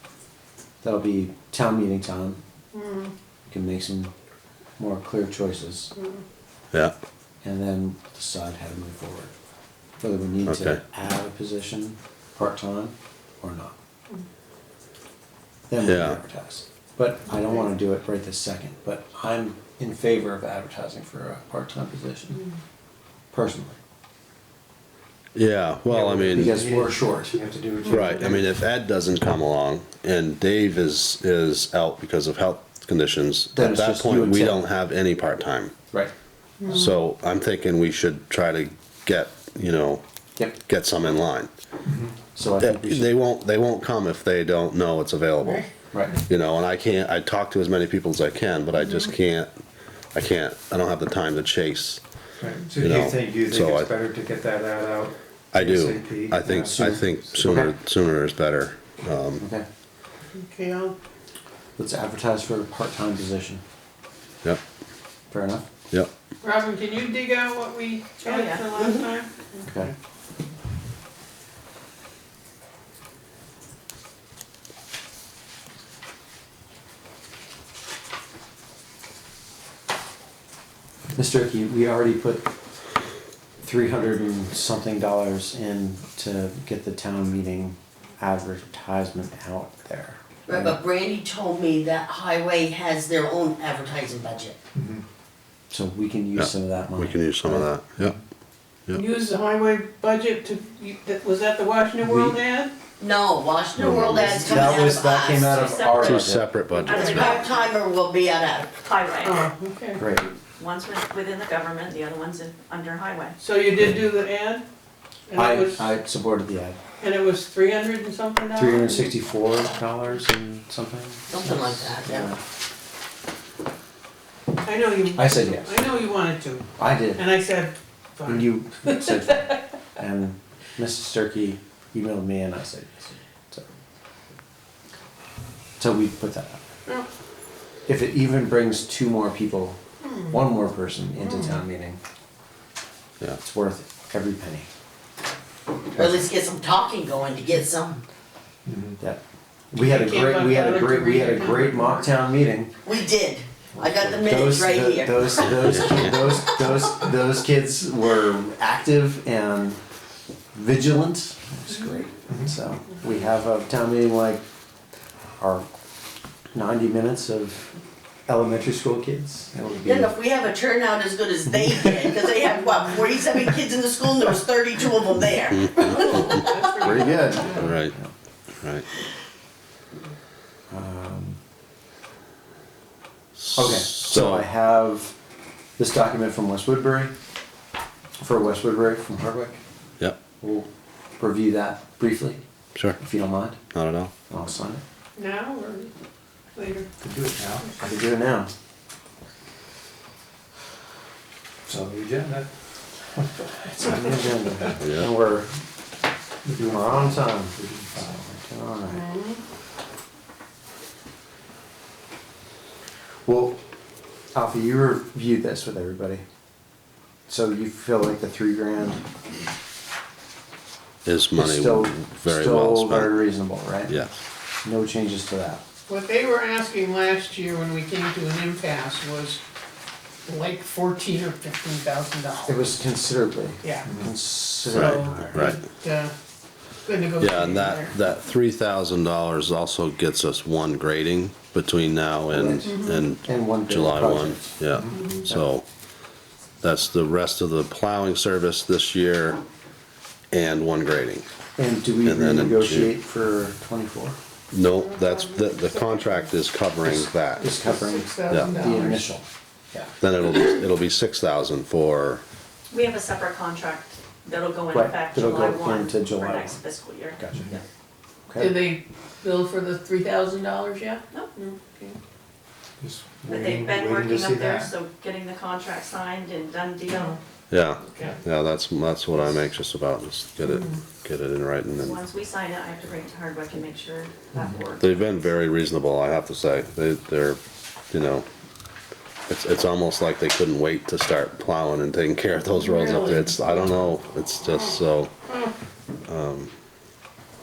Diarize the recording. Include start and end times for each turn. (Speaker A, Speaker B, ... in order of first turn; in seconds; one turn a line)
Speaker A: 0.8-2.4
Speaker B: 2.7-3.1
Speaker A: 3.5-4.1
Speaker A: 4.8-5.9
Speaker B: 6.0-6.2
Speaker A: 7.4-9.3
Speaker A: 10.0-13.8
Speaker C: 10.4-10.8
Speaker A: 15.7-22.4
Speaker C: 15.8-16.2
Speaker A: 23.3-23.8
Speaker C: 25.3-26.6
Speaker D: 25.9-28.4
Speaker A: 26.3-27.4
Speaker C: 27.8-35.7
Speaker A: 33.5-34.7
Speaker B: 36.6-36.9
Speaker C: 36.7-41.5
Speaker A: 42.4-43.1
Speaker C: 42.6-45.7
Speaker C: 46.2-49.5
Speaker C: 50.1-52.0
Speaker D: 52.4-57.0
Speaker C: 52.8-53.9
Speaker C: 55.5-59.4
Speaker A: 56.7-57.7
Speaker A: 59.4-59.7
Speaker B: 60.3-61.0
Speaker A: 61.8-63.6
Speaker A: 65.3-65.7
Speaker B: 66.4-69.8
Speaker E: 68.2-68.8
Speaker F: 68.7-69.0
Speaker A: 69.6-69.9
Speaker A: 81.1-82.5
Speaker A: 83.6-90.8
Speaker F: 90.5-94.6
Speaker D: 94.8-95.0
Speaker A: 95.7-97.7
Speaker C: 96.3-98.2
Speaker B: 98.9-102.7
Speaker A: 102.0-102.4
Speaker F: 103.0-105.9
Speaker C: 103.8-104.3
Speaker A: 103.9-106.5
Speaker E: 104.5-105.0
Speaker E: 105.5-106.2
Speaker C: 105.9-107.3
Speaker E: 106.8-107.6
Speaker F: 106.9-108.7
Speaker E: 108.8-109.5
Speaker B: 109.2-110.1
Speaker A: 110.0-110.3
Speaker E: 110.6-113.4
Speaker B: 113.4-114.7
Speaker B: 115.3-115.9
Speaker A: 115.3-116.8
Speaker B: 117.0-119.1
Speaker A: 118.5-122.4
Speaker F: 121.3-122.3
Speaker B: 124.6-129.5
Speaker A: 125.1-125.9
Speaker A: 126.8-127.2
Speaker A: 128.2-133.7
Speaker A: 135.8-136.6
Speaker A: 137.8-142.0
Speaker B: 140.1-140.4
Speaker B: 141.2-141.6
Speaker A: 143.4-144.7
Speaker F: 145.9-148.0
Speaker D: 148.7-149.0
Speaker A: 149.7-152.7
Speaker B: 149.8-152.0
Speaker F: 152.8-155.9
Speaker A: 153.8-159.8
Speaker C: 155.6-156.2
Speaker A: 160.5-164.4
Speaker A: 165.4-165.7
Speaker A: 166.5-167.7
Speaker A: 168.3-170.1
Speaker F: 169.8-176.9
Speaker C: 175.5-176.0
Speaker B: 175.9-177.8
Speaker A: 176.8-178.1
Speaker C: 177.5-177.9
Speaker A: 180.7-181.4
Speaker C: 183.4-184.5
Speaker A: 183.6-185.1
Speaker A: 185.8-187.1
Speaker A: 188.2-189.6
Speaker A: 190.4-192.4
Speaker A: 193.0-193.6
Speaker C: 193.7-194.1
Speaker A: 194.3-194.8
Speaker B: 195.2-195.9
Speaker B: 196.5-196.9
Speaker D: 197.0-197.7
Speaker A: 197.8-198.5
Speaker D: 201.7-202.5
Speaker D: 203.2-203.4
Speaker A: 203.8-205.5
Speaker C: 204.8-205.1
Speaker D: 206.4-208.2
Speaker A: 206.6-209.1
Speaker B: 208.9-209.4
Speaker A: 213.2-213.6
Speaker A: 214.3-216.2
Speaker A: 217.3-219.0
Speaker C: 221.0-223.2
Speaker A: 221.3-224.0
Speaker C: 223.9-224.2
Speaker A: 224.6-225.6
Speaker B: 225.9-229.4
Speaker B: 230.2-232.6
Speaker A: 232.4-235.6
Speaker B: 233.6-233.9
Speaker C: 234.7-235.6
Speaker B: 234.7-236.1
Speaker B: 236.8-237.9
Speaker C: 237.2-245.6
Speaker A: 242.3-244.5
Speaker B: 242.7-242.9
Speaker C: 246.6-249.4
Speaker C: 250.3-251.2
Speaker A: 251.6-254.2
Speaker C: 252.0-252.9
Speaker C: 254.5-257.5
Speaker B: 254.8-256.3
Speaker A: 256.8-259.9
Speaker B: 257.4-259.1
Speaker C: 258.3-258.6
Speaker C: 260.0-262.2
Speaker E: 262.7-267.6
Speaker A: 264.7-266.6
Speaker A: 267.2-267.5
Speaker A: 268.3-268.7
Speaker B: 268.4-272.0
Speaker D: 272.8-274.7
Speaker E: 273.3-277.2
Speaker B: 276.9-277.2
Speaker C: 277.5-282.0
Speaker E: 277.9-278.2
Speaker B: 280.5-280.8
Speaker E: 281.8-284.9
Speaker C: 284.8-287.4
Speaker C: 287.9-288.2
Speaker C: 289.3-295.1
Speaker B: 292.5-293.9
Speaker C: 296.1-296.5